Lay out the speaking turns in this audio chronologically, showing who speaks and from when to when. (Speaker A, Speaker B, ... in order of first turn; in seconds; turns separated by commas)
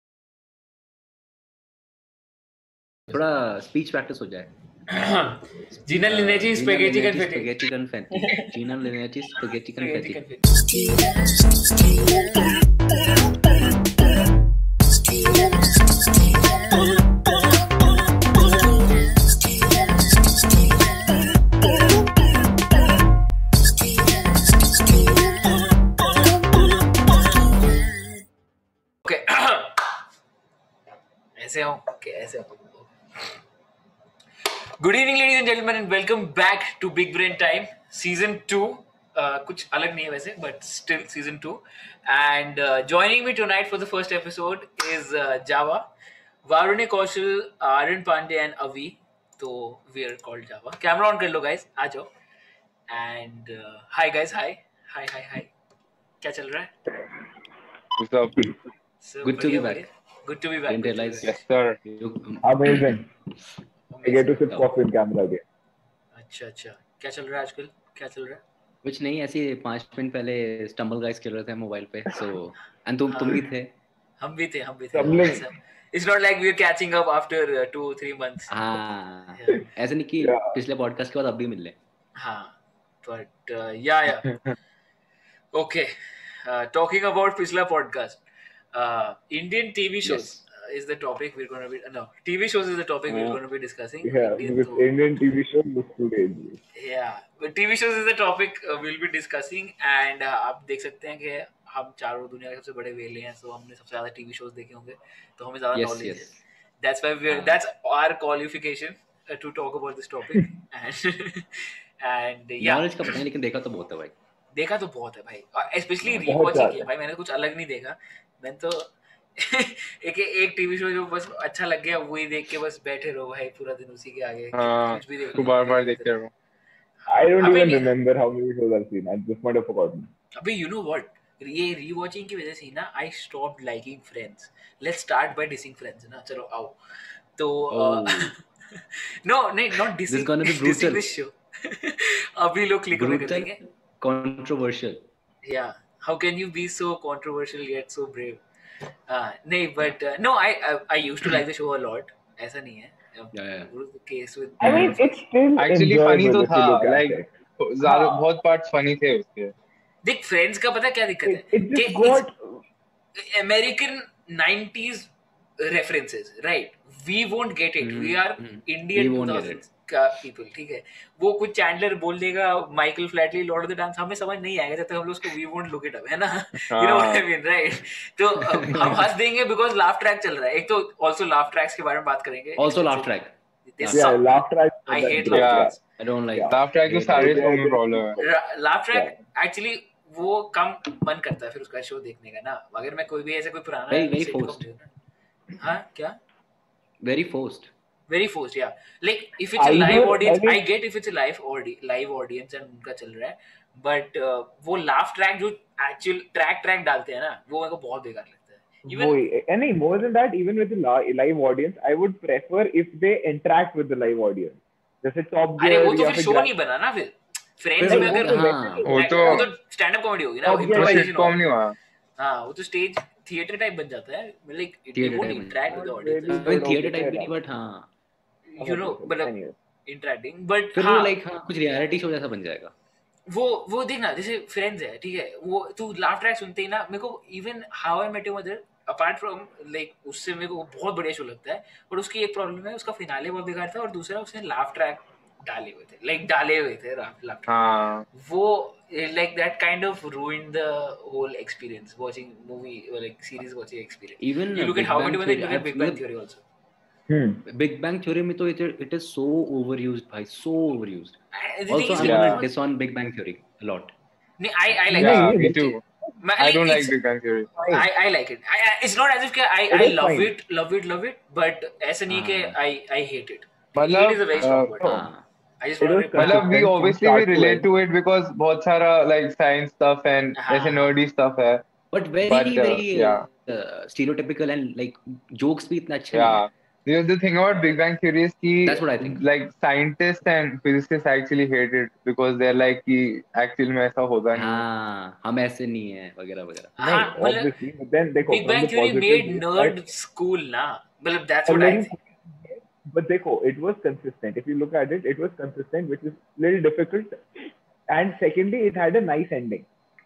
Speaker A: 3.1-4.5, Speaker B: 4.9-7.6, Speaker A: 6.0-10.2, Speaker B: 8.2-8.5, Speaker B: 9.7-10.7, Speaker B: 29.0-29.9, Speaker B: 31.4-32.9, Speaker B: 34.8-45.9, Speaker B: 46.5-52.1, Speaker B: 52.9-55.5, Speaker B: 56.2-56.7, Speaker C: 58.0-58.5, Speaker B: 59.0-61.4, Speaker A: 59.2-59.9, Speaker A: 60.7-61.3, Speaker C: 61.2-61.8, Speaker A: 61.9-63.0, Speaker D: 62.4-63.1, Speaker B: 63.9-64.5, Speaker D: 64.0-65.4, Speaker B: 66.2-68.4, Speaker A: 68.8-73.7, Speaker B: 73.1-73.4, Speaker B: 74.2-78.5, Speaker D: 74.9-75.4, Speaker A: 78.5-81.8, Speaker B: 79.3-79.6, Speaker D: 80.2-80.6, Speaker B: 82.2-84.3, Speaker B: 85.5-85.9, Speaker B: 86.4-88.2, Speaker B: 88.7-94.9, Speaker A: 90.0-90.4, Speaker C: 93.1-93.4, Speaker D: 94.0-96.6, Speaker B: 96.8-106.3, Speaker A: 105.8-106.4, Speaker B: 106.8-112.9, Speaker A: 107.3-107.6, Speaker A: 112.6-114.1, Speaker B: 114.5-126.1, Speaker A: 116.0-116.3, Speaker D: 116.3-116.9, Speaker C: 124.5-126.3, Speaker B: 127.1-128.0, Speaker D: 127.1-130.1, Speaker B: 130.4-136.8, Speaker B: 137.4-143.6, Speaker A: 137.7-138.3, Speaker A: 140.1-141.0, Speaker A: 142.9-145.1, Speaker B: 145.4-148.4, Speaker B: 149.1-155.2, Speaker A: 153.3-153.7, Speaker D: 154.6-157.3, Speaker A: 154.7-154.9, Speaker C: 155.6-159.5, Speaker D: 157.8-158.2, Speaker B: 160.0-162.3, Speaker D: 161.3-162.6, Speaker B: 163.2-183.1, Speaker A: 167.8-169.6, Speaker C: 176.7-177.2, Speaker A: 178.4-179.1, Speaker A: 182.6-184.2, Speaker B: 183.7-185.8, Speaker D: 183.9-185.8, Speaker C: 185.3-185.7, Speaker A: 186.0-187.5, Speaker C: 186.5-188.2, Speaker D: 187.1-188.3, Speaker B: 188.2-194.8, Speaker A: 193.9-194.6, Speaker B: 195.6-196.2, Speaker A: 197.0-197.7, Speaker B: 198.1-209.2, Speaker D: 199.6-200.6, Speaker D: 208.9-216.5, Speaker B: 215.6-221.4, Speaker D: 217.8-219.5, Speaker A: 217.8-218.9, Speaker C: 218.9-219.5, Speaker D: 220.4-221.1, Speaker C: 220.7-221.8, Speaker B: 222.2-226.6, Speaker A: 224.9-225.6, Speaker D: 225.7-227.3, Speaker A: 226.3-227.9, Speaker B: 228.5-229.3, Speaker D: 228.6-229.6, Speaker B: 229.9-231.1, Speaker A: 230.7-232.7, Speaker B: 233.3-247.6, Speaker C: 247.5-248.1, Speaker B: 248.1-256.4, Speaker A: 254.2-256.0, Speaker D: 257.1-257.4, Speaker A: 257.5-261.2, Speaker B: 261.3-262.5, Speaker A: 261.7-263.9, Speaker C: 262.0-262.4, Speaker B: 264.4-267.0, Speaker D: 264.9-265.7, Speaker C: 264.9-265.8, Speaker C: 266.4-267.5, Speaker D: 267.6-267.9, Speaker B: 267.7-275.0, Speaker D: 269.7-270.3, Speaker A: 272.1-272.6, Speaker C: 273.8-274.8, Speaker A: 274.8-275.2, Speaker B: 275.6-276.5, Speaker D: 275.8-277.7, Speaker C: 276.2-281.6, Speaker B: 280.4-280.9, Speaker A: 281.9-286.4, Speaker C: 282.3-283.2, Speaker C: 286.1-294.6, Speaker A: 288.6-289.2, Speaker A: 294.3-297.1, Speaker B: 296.8-297.5, Speaker D: 296.8-299.8, Speaker B: 298.3-301.9, Speaker D: 301.5-307.2, Speaker D: 307.9-309.7